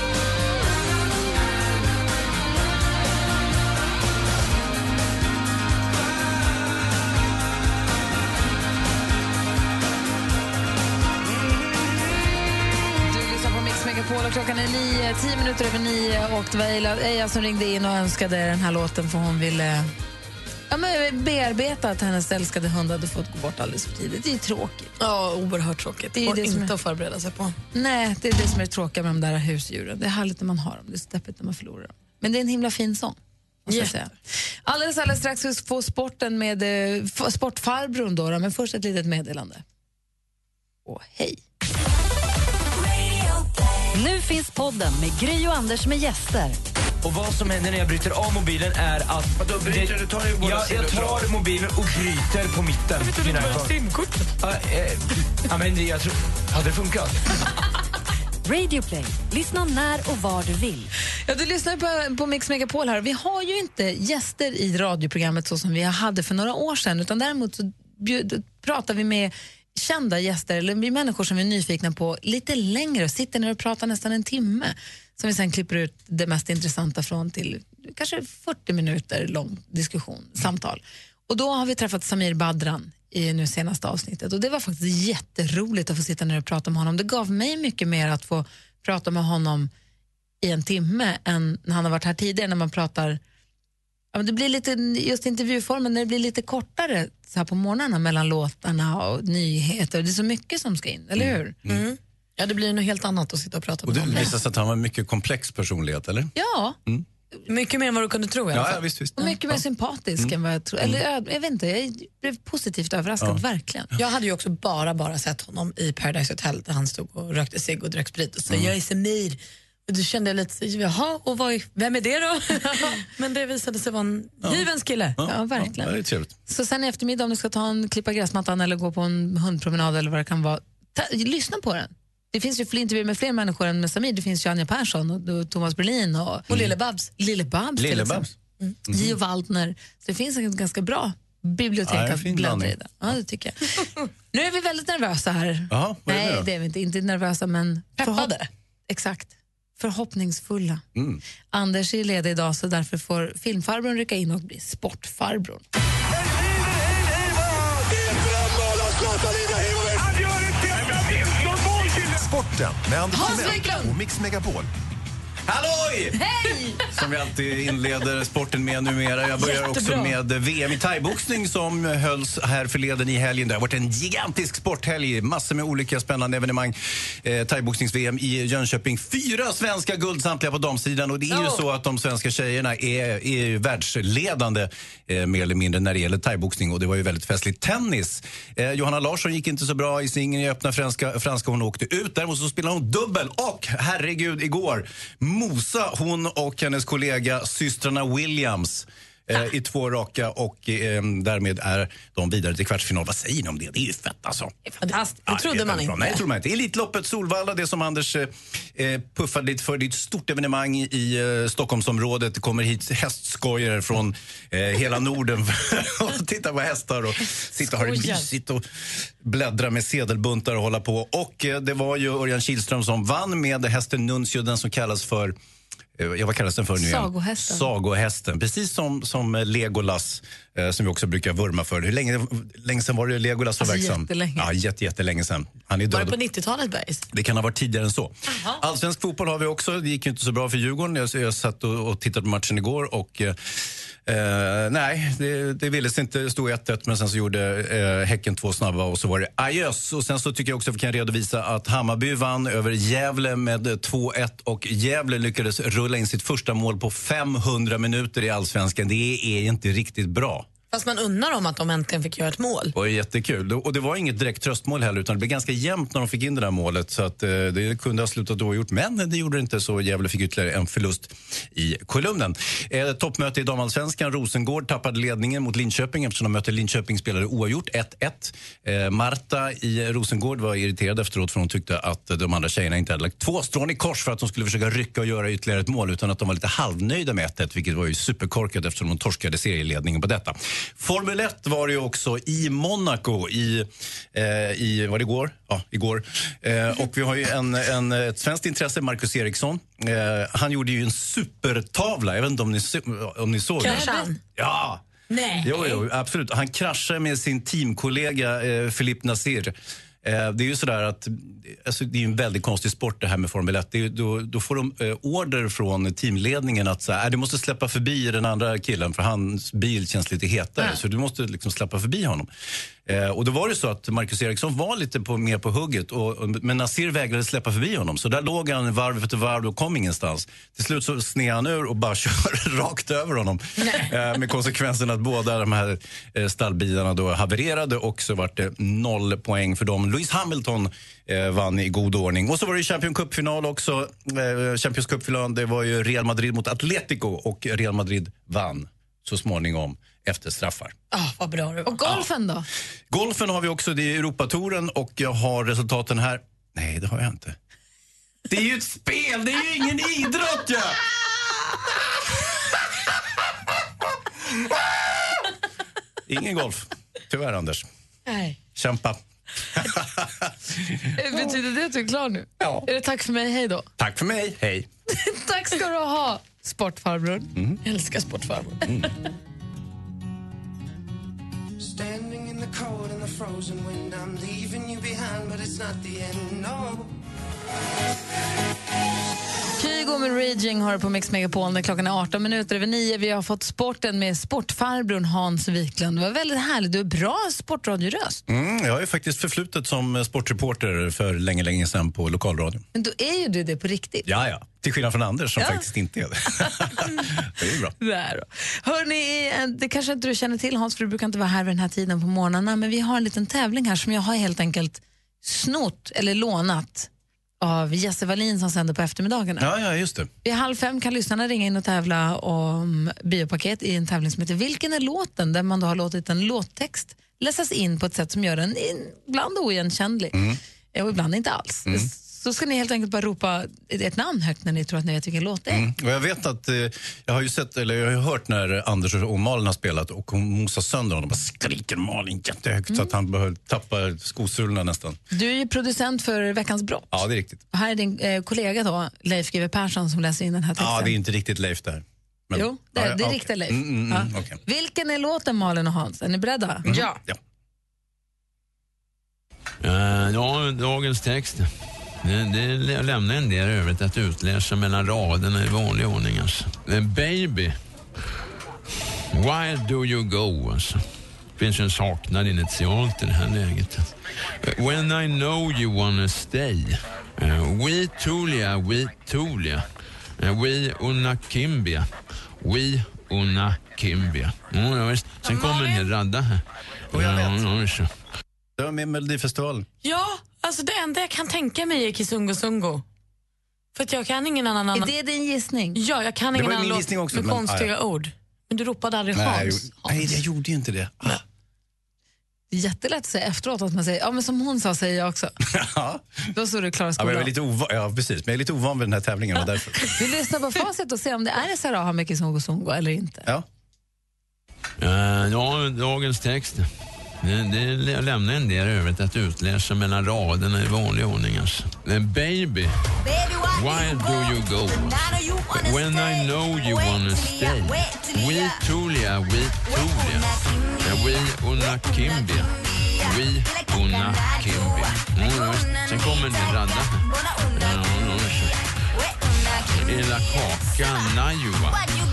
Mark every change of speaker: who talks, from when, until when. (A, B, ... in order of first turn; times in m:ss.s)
0:13.0-0:19.9 A
0:20.7-0:24.9 A
0:25.0-0:27.6 B
0:26.2-0:26.7 A
0:27.7-0:34.1 A
0:33.7-0:33.9 B
0:34.6-0:39.6 A
0:40.8-0:41.4 A
0:43.9-0:46.6 C
0:47.0-0:53.7 D
0:53.0-0:54.3 B
0:54.4-0:57.2 D
0:58.4-1:00.9 C
1:01.2-1:29.7 A
1:30.4-1:33.2 A
1:34.1-1:41.5 A
1:41.2-1:41.8 E
1:41.7-1:44.3 B
1:43.8-1:46.3 E
1:46.3-1:46.8 A
1:47.5-1:48.8 B
1:48.5-1:49.6 E
1:49.2-1:53.9 A
1:54.0-2:05.2 B
2:05.2-2:06.3 E
2:05.2-2:05.9 A
2:06.5-2:16.5 A
2:16.5-2:16.8 E
2:16.5-2:17.1 B
2:17.2-2:18.3 A
2:17.8-2:18.3 E
2:18.9-2:28.3 A
2:21.8-2:23.1 E
2:25.7-2:26.5 E
2:28.0-2:28.5 B
2:28.9-2:30.8 A
2:30.9-2:31.2 E
2:31.5-2:35.6 A
2:39.1-2:44.7 F
2:43.1-2:44.0 A
2:45.5-2:46.2 E
2:46.2-2:46.8 A
2:46.9-3:24.5 E
2:49.4-2:50.2 B
3:24.8-3:26.2 B
3:25.3-3:38.6 E
3:37.6-3:38.3 B
3:39.2-3:45.3 E
3:46.0-3:56.2 E
3:46.8-3:47.7 A
3:53.6-3:54.5 A
3:55.9-3:57.0 B
3:57.1-4:20.5 E
4:20.7-4:22.7 B
4:22.7-5:04.8 E
5:03.6-5:04.2 B
5:03.6-5:04.1 A
5:05.1-5:05.8 B
5:05.4-5:22.3 E
5:22.8-5:50.7 E
5:50.9-5:51.9 B
5:51.6-5:52.4 A
5:52.9-5:57.4 E
5:58.3-6:00.8 E
6:06.1-6:07.6 E
6:08.1-6:08.4 B
6:08.5-6:09.0 E
6:09.6-6:10.9 E
6:11.0-6:13.7 A
6:13.8-6:14.7 E
6:14.9-6:17.3 A
6:17.6-6:18.9 B
6:29.6-6:38.2 A
6:38.3-6:42.6 E
6:42.7-6:44.1 A
6:44.0-6:47.7 E
6:47.8-6:56.9 A
6:57.4-6:59.5 A
6:59.4-7:00.1 E
7:00.2-7:10.2 A
7:10.1-7:10.4 E
7:10.7-7:15.7 A
7:15.5-7:25.0 E
7:25.1-7:30.9 A
7:26.9-7:27.4 E
7:30.6-7:34.4 E
7:32.3-7:36.7 A
7:36.6-7:37.0 B
7:36.6-7:37.2 E
7:39.6-7:41.5 G
7:42.0-7:47.6 G
7:49.1-7:50.8 G
7:51.4-7:59.6 G
8:00.2-8:07.9 G
8:06.9-8:07.4 E
8:08.6-8:09.6 E
8:09.8-8:12.8 B
8:13.7-8:14.9 B
8:14.7-8:15.8 A
8:15.7-8:20.2 B
8:16.3-8:17.7 E
8:19.1-8:21.2 E
8:22.5-8:25.3 A
8:25.4-8:26.0 E
8:26.3-8:27.3 A
8:27.0-8:29.9 E
8:29.9-8:33.3 A
8:34.8-8:36.7 G
8:37.2-8:42.8 G
8:43.4-8:58.6 G
8:59.5-9:01.9 G